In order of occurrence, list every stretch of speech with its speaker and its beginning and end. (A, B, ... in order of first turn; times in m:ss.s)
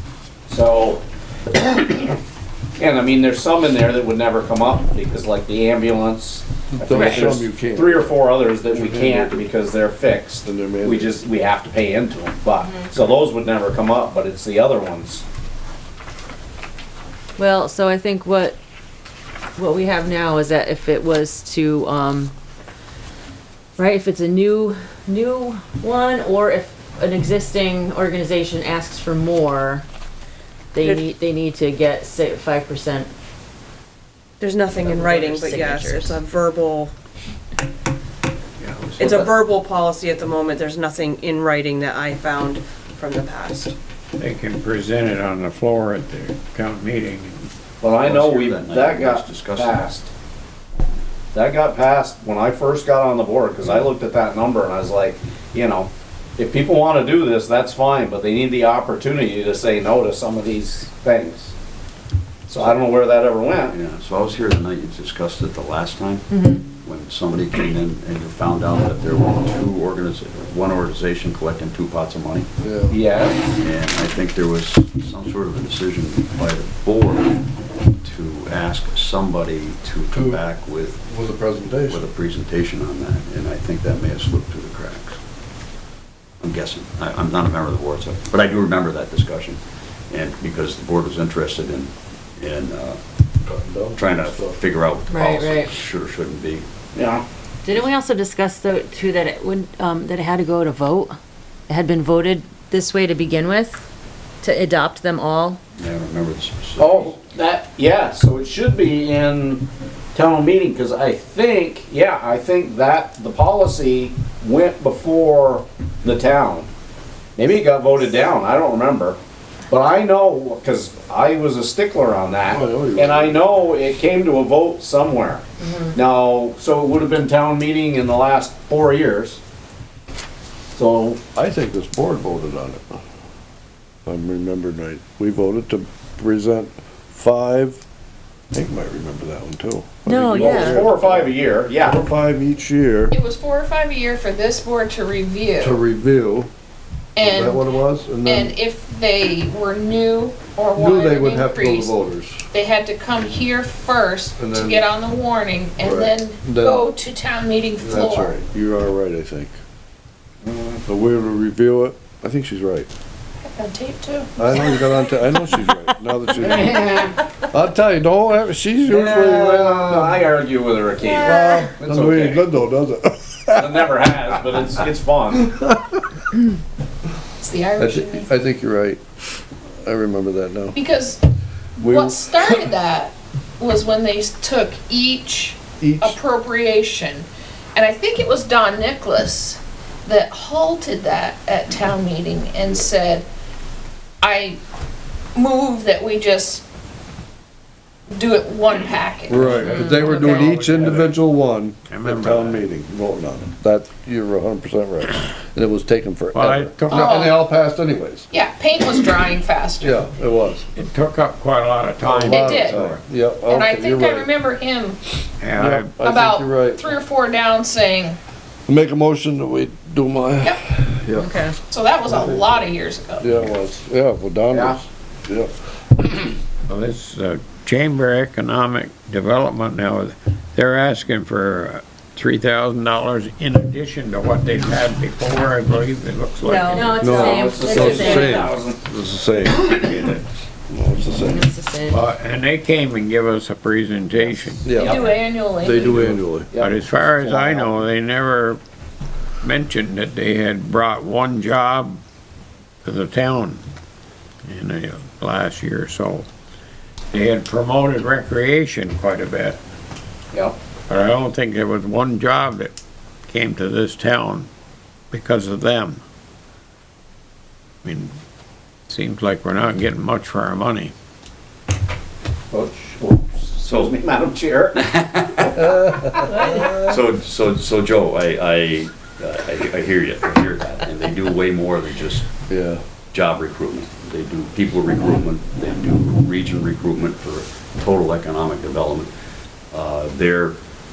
0:00.4-0:01.0 A
0:01.5-0:02.2 A
0:02.8-0:15.2 A
0:06.7-0:09.5 B
0:06.9-0:07.2 C
0:10.4-0:11.2 B
0:17.4-0:18.6 C
0:19.6-0:22.3 C
0:23.8-0:29.8 C
0:30.7-0:33.1 C
0:30.8-0:31.1 D
0:34.4-0:36.9 D
0:34.8-0:36.2 C
0:38.6-0:39.3 A
0:39.0-0:43.7 D
0:44.2-0:47.5 E
0:47.8-0:50.1 A
0:48.0-0:49.8 F
0:51.3-1:01.5 A
1:02.5-1:03.8 A
1:03.7-1:06.2 F
1:06.3-1:06.6 C
1:06.8-1:12.5 F
1:12.6-1:13.0 B
1:12.9-1:13.5 A
1:13.6-1:17.4 F
1:18.0-1:21.1 F
1:20.1-1:20.4 B
1:21.1-1:22.0 B
1:21.8-1:25.2 F
1:26.4-1:33.0 F
1:33.4-1:34.6 B
1:33.9-1:36.6 F
1:35.1-1:35.8 C
1:36.9-1:37.2 A
1:37.6-1:41.2 C
1:41.7-1:43.8 C
1:44.4-1:45.6 C
1:45.8-1:46.9 F
1:46.8-1:56.7 A
1:57.4-1:59.2 A
1:59.7-2:09.4 A
2:02.5-2:03.6 B
2:10.7-2:11.2 A
2:11.3-2:13.0 B
2:14.0-2:17.8 B
2:18.5-2:23.1 B
2:20.0-2:20.8 C
2:20.3-2:22.0 A
2:23.1-2:25.8 G
2:25.6-2:26.5 B
2:27.2-2:27.7 G
2:27.2-2:28.5 B
2:28.2-2:32.0 G
2:30.7-2:32.5 B
2:32.5-2:38.4 G
2:34.4-2:34.8 B
2:35.8-2:36.8 B
2:37.8-2:39.6 B
2:40.4-2:40.8 A
2:40.8-2:42.9 B
2:43.4-2:45.2 G
2:44.4-2:46.8 B
2:46.5-2:47.2 A
2:47.4-2:50.2 B
2:48.9-2:52.4 A
2:51.0-2:51.7 G
2:51.2-2:56.0 B
2:53.6-2:55.4 A
2:57.4-2:58.4 G
2:57.8-2:59.0 B
2:59.8-3:00.8 B
3:00.7-3:01.2 G
3:01.8-3:02.6 B
3:01.8-3:13.3 G
3:05.8-3:06.2 B
3:14.2-3:14.6 G
3:15.3-3:16.6 G
3:18.1-3:20.6 G
3:19.3-3:28.2 B
3:19.4-3:21.2 E
3:21.9-3:22.7 E
3:26.3-3:27.1 E
3:26.8-3:27.5 G
3:28.3-3:30.0 G
3:29.8-3:30.6 B
3:30.7-3:33.0 E
3:32.0-3:34.3 B
3:32.2-3:32.8 G
3:33.5-3:35.0 G
3:35.4-3:36.0 E
3:35.5-3:36.9 B
3:36.0-3:38.2 G
3:38.7-3:41.4 B
3:41.2-3:41.6 C
3:41.7-3:43.3 G
3:42.1-3:42.6 B
3:43.2-3:45.5 B
3:44.5-3:44.8 A
3:46.7-3:57.2 E
3:56.4-3:58.5 C
3:57.0-4:00.2 B
3:57.3-3:58.8 A
4:00.7-4:01.5 B
4:01.2-4:02.0 C
4:01.9-4:04.7 E
4:04.6-4:05.0 B
4:04.7-4:06.2 G
4:05.6-4:06.5 B
4:06.5-4:07.7 A
4:06.6-4:08.6 E
4:09.4-4:12.0 E
4:12.8-4:13.6 E
4:14.4-4:16.3 E
4:17.1-4:19.6 E
4:20.3-4:20.6 A
4:20.9-4:22.7 E
4:23.3-4:24.5 E
4:25.1-4:26.0 E
4:27.8-4:28.1 E
4:28.9-4:30.9 E
4:32.5-4:36.7 A
4:35.7-4:36.6 B
4:36.6-4:42.2 F
4:42.5-4:42.8 B
4:43.1-4:49.1 F
4:49.7-4:50.6 F